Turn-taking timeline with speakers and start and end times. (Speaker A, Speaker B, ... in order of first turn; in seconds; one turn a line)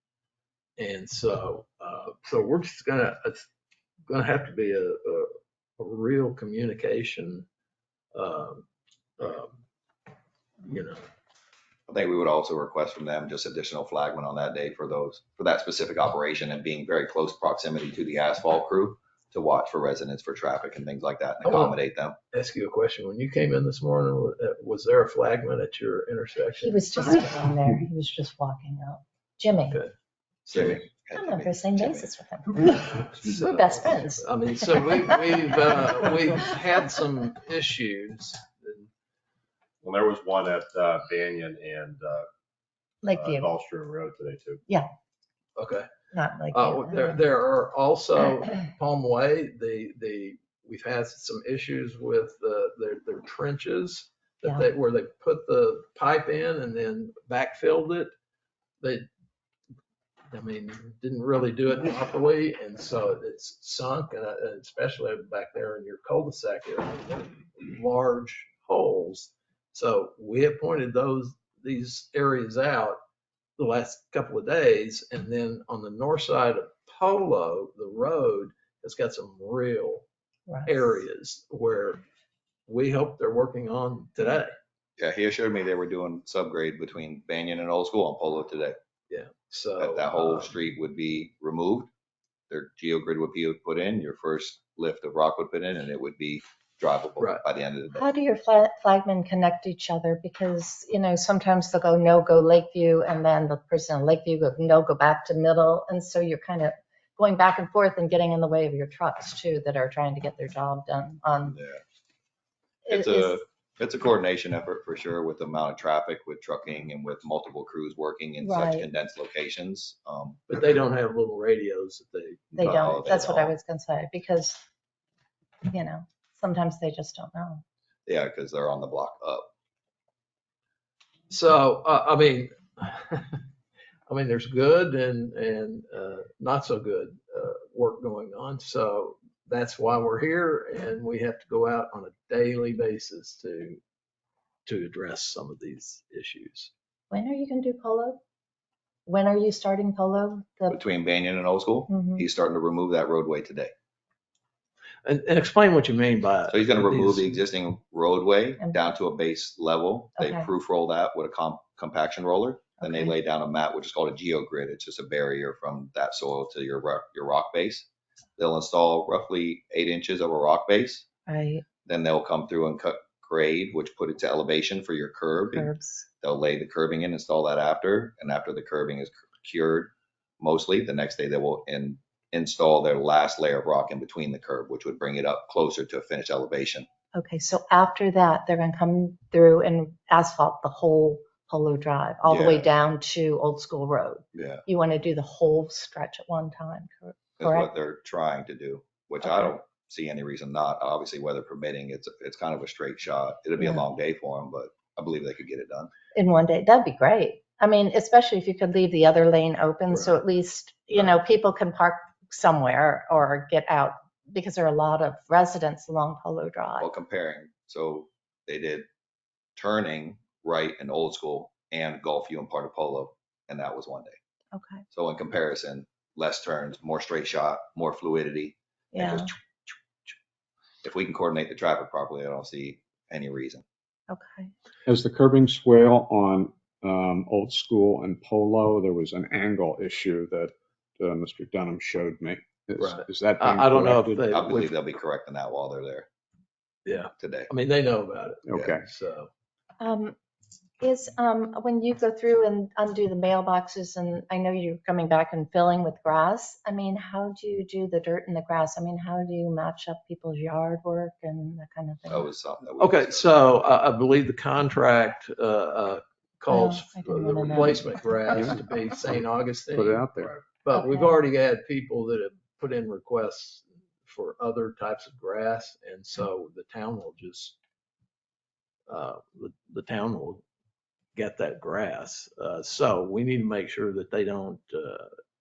Speaker A: 0.8-3.5
Speaker A: 4.1-7.5
Speaker A: 8.1-8.7
Speaker A: 9.2-9.5
Speaker A: 10.6-11.0
Speaker B: 11.9-22.2
Speaker A: 21.4-21.8
Speaker A: 22.3-27.1
Speaker C: 26.6-29.8
Speaker B: 30.5-32.1
Speaker A: 30.5-30.8
Speaker C: 31.1-34.2
Speaker A: 32.6-38.9
Speaker D: 39.8-42.3
Speaker C: 43.0-43.5
Speaker D: 43.1-44.6
Speaker A: 45.5-45.9
Speaker C: 46.1-47.2
Speaker A: 46.5-58.1
Speaker A: 58.8-59.1
Speaker A: 60.3-73.0
Speaker A: 73.6-80.0
Speaker C: 80.5-80.8
Speaker A: 80.7-82.0
Speaker A: 82.7-84.5
Speaker B: 85.0-88.8
Speaker A: 89.1-90.5
Speaker B: 89.8-91.9
Speaker B: 92.5-98.0
Speaker C: 97.9-111.5
Speaker B: 111.4-111.8
Speaker C: 112.8-113.4
Speaker B: 112.9-120.5
Speaker C: 118.4-118.9
Speaker A: 120.5-122.8
Speaker B: 122.5-123.6
Speaker C: 122.6-124.6
Speaker C: 125.7-127.6
Speaker B: 128.1-129.4
Speaker A: 131.3-133.4
Speaker A: 134.1-143.8
Speaker A: 144.7-146.7
Speaker C: 147.1-148.2
Speaker C: 149.1-150.8
Speaker B: 150.7-153.7
Speaker C: 151.9-152.2
Speaker A: 155.0-157.4
Speaker B: 156.5-171.1
Speaker C: 160.2-160.5
Speaker C: 162.8-163.1
Speaker C: 171.3-171.6
Speaker B: 171.8-175.7
Speaker C: 175.5-176.1
Speaker B: 176.2-186.9
Speaker C: 187.1-197.7
Speaker B: 192.2-192.7
Speaker B: 194.3-194.6
Speaker B: 197.4-205.9
Speaker C: 199.2-199.5
Speaker C: 203.6-203.8
Speaker C: 206.1-216.9
Speaker B: 216.8-218.8
Speaker B: 219.6-224.2
Speaker C: 224.5-224.8
Speaker B: 224.9-229.3
Speaker C: 228.9-229.3
Speaker B: 230.8-233.6
Speaker C: 234.1-234.5
Speaker E: 234.8-244.3
Speaker A: 242.8-244.7
Speaker B: 244.3-246.1
Speaker A: 246.9-249.3
Speaker B: 247.2-247.5
Speaker E: 248.4-248.8
Speaker C: 249.8-250.2
Speaker C: 250.8-262.3
Speaker B: 262.1-263.3
Speaker A: 262.8-277.6
Speaker C: 266.5-267.9
Speaker E: 269.7-270.4
Speaker C: 270.8-271.2
Speaker A: 278.9-280.4
Speaker A: 281.1-285.1